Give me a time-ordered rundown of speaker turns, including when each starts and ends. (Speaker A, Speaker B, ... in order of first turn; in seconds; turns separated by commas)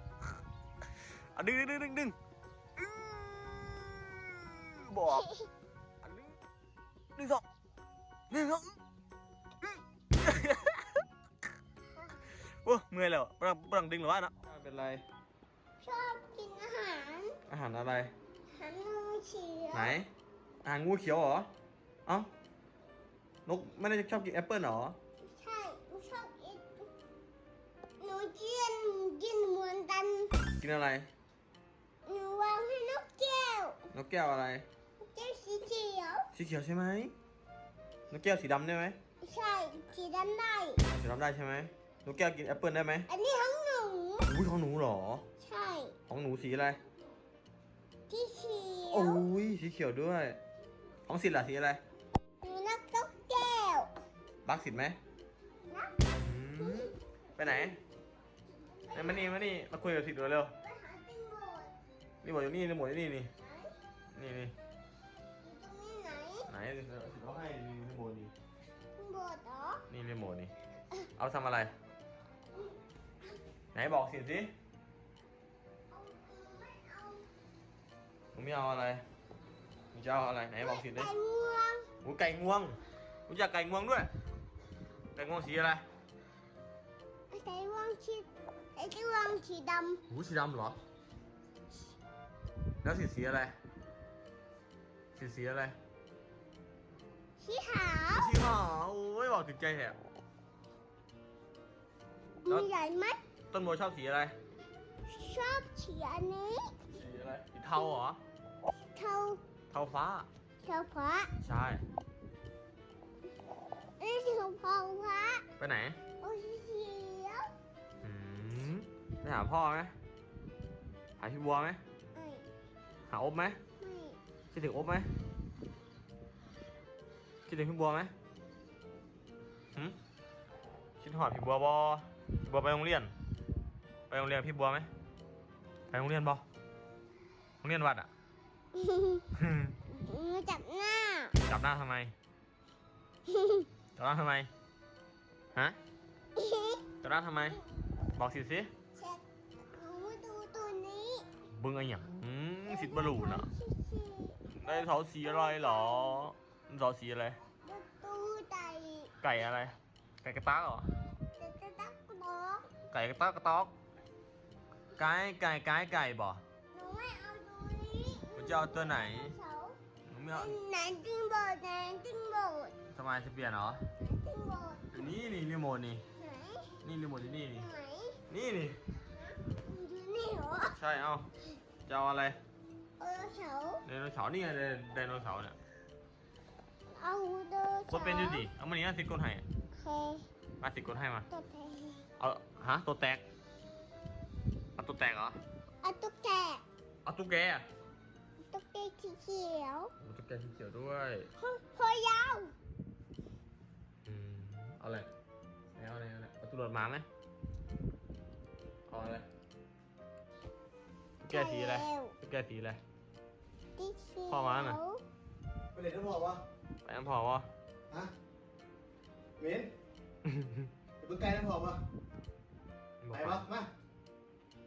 Speaker A: 1.4-2.1, Speaker A: 2.8-5.3, Speaker B: 5.1-5.5, Speaker A: 6.0-6.3, Speaker A: 7.2-7.4, Speaker A: 8.3-8.8, Speaker A: 10.1-11.0, Speaker B: 11.9-12.3, Speaker A: 12.6-15.0, Speaker B: 15.8-17.4, Speaker A: 17.5-18.1, Speaker B: 18.5-20.0, Speaker A: 19.7-20.1, Speaker A: 20.6-21.5, Speaker A: 23.5-25.0, Speaker B: 25.2-26.9, Speaker B: 28.0-30.3, Speaker A: 30.6-31.1, Speaker B: 32.1-33.8, Speaker A: 33.9-34.7, Speaker B: 35.0-36.3, Speaker A: 36.3-37.1, Speaker A: 38.1-39.0, Speaker B: 39.2-40.8, Speaker A: 40.9-43.1, Speaker B: 43.1-44.3, Speaker A: 44.3-45.3, Speaker B: 45.4-46.0, Speaker A: 46.1-46.8, Speaker B: 48.1-49.2, Speaker A: 48.9-50.4, Speaker A: 51.1-51.8, Speaker B: 52.4-53.9, Speaker A: 54.5-55.0, Speaker B: 55.7-56.0, Speaker A: 56.1-57.8, Speaker B: 56.6-56.9, Speaker B: 58.6-59.5, Speaker A: 58.9-60.5, Speaker B: 60.6-61.7, Speaker A: 62.2-63.3, Speaker B: 63.4-63.8, Speaker A: 64.1-64.5, Speaker B: 65.4-66.5, Speaker A: 66.5-68.3, Speaker B: 69.0-69.8, Speaker A: 69.9-70.5, Speaker A: 71.2-71.7, Speaker A: 73.7-74.5, Speaker B: 75.9-77.3, Speaker A: 78.3-79.0, Speaker A: 79.9-81.1, Speaker B: 80.6-81.9, Speaker A: 82.0-84.1, Speaker A: 85.2-85.8, Speaker B: 87.3-90.0, Speaker A: 90.1-90.8, Speaker A: 92.8-93.6, Speaker A: 95.2-95.8, Speaker B: 97.4-98.3, Speaker A: 98.1-100.0, Speaker B: 102.4-103.2, Speaker A: 103.5-104.4, Speaker B: 105.1-106.7, Speaker A: 106.9-108.2, Speaker B: 108.9-109.4, Speaker A: 109.7-110.3, Speaker B: 110.6-111.3, Speaker A: 111.4-111.8, Speaker B: 114.0-115.5, Speaker A: 115.6-116.0, Speaker B: 116.2-117.5, Speaker A: 118.0-119.9, Speaker A: 121.2-121.8, Speaker B: 122.2-122.5, Speaker A: 123.1-123.6, Speaker B: 123.8-124.2, Speaker A: 124.5-125.1, Speaker A: 127.5-128.1, Speaker A: 131.0-133.1, Speaker A: 134.1-134.9, Speaker A: 135.9-136.4, Speaker A: 137.6-138.1, Speaker B: 138.7-139.2, Speaker A: 139.4-139.8, Speaker B: 139.9-141.4, Speaker A: 141.5-142.1, Speaker B: 143.3-143.7, Speaker A: 144.0-144.5, Speaker B: 146.4-146.9, Speaker A: 147.0-147.6, Speaker A: 148.1-148.7, Speaker B: 148.9-151.3, Speaker A: 151.5-153.5, Speaker B: 152.7-156.3, Speaker A: 154.6-157.4, Speaker B: 157.6-159.1, Speaker A: 159.2-160.9, Speaker B: 161.4-162.7, Speaker A: 162.9-163.7, Speaker A: 165.0-166.4, Speaker B: 166.7-169.8, Speaker A: 168.4-169.3, Speaker A: 170.1-170.6, Speaker B: 170.3-172.7, Speaker A: 172.9-173.8, Speaker B: 174.0-174.9, Speaker A: 174.9-176.0, Speaker B: 176.2-176.8, Speaker A: 176.8-177.7, Speaker B: 177.6-178.2, Speaker A: 178.3-178.8, Speaker B: 179.1-180.8, Speaker A: 180.8-181.3, Speaker A: 181.9-182.4, Speaker B: 183.0-183.8, Speaker A: 183.9-185.6, Speaker B: 186.9-188.5, Speaker A: 187.9-189.4, Speaker B: 189.8-190.3, Speaker A: 190.6-191.3, Speaker B: 191.3-192.1, Speaker A: 192.2-193.2, Speaker A: 194.8-195.4, Speaker B: 195.8-196.6, Speaker A: 197.1-197.7, Speaker B: 198.5-199.9, Speaker A: 200.0-201.3, Speaker B: 201.4-202.5, Speaker A: 204.1-205.1, Speaker A: 205.7-207.1, Speaker A: 208.9-209.3, Speaker A: 211.2-212.8, Speaker B: 211.3-212.2, Speaker B: 213.8-215.0, Speaker A: 214.3-214.8, Speaker C: 215.8-216.4, Speaker A: 216.8-217.5, Speaker C: 219.4-219.7, Speaker A: 220.2-220.7, Speaker C: 221.0-221.8, Speaker A: 223.0-223.5, Speaker C: 223.1-223.7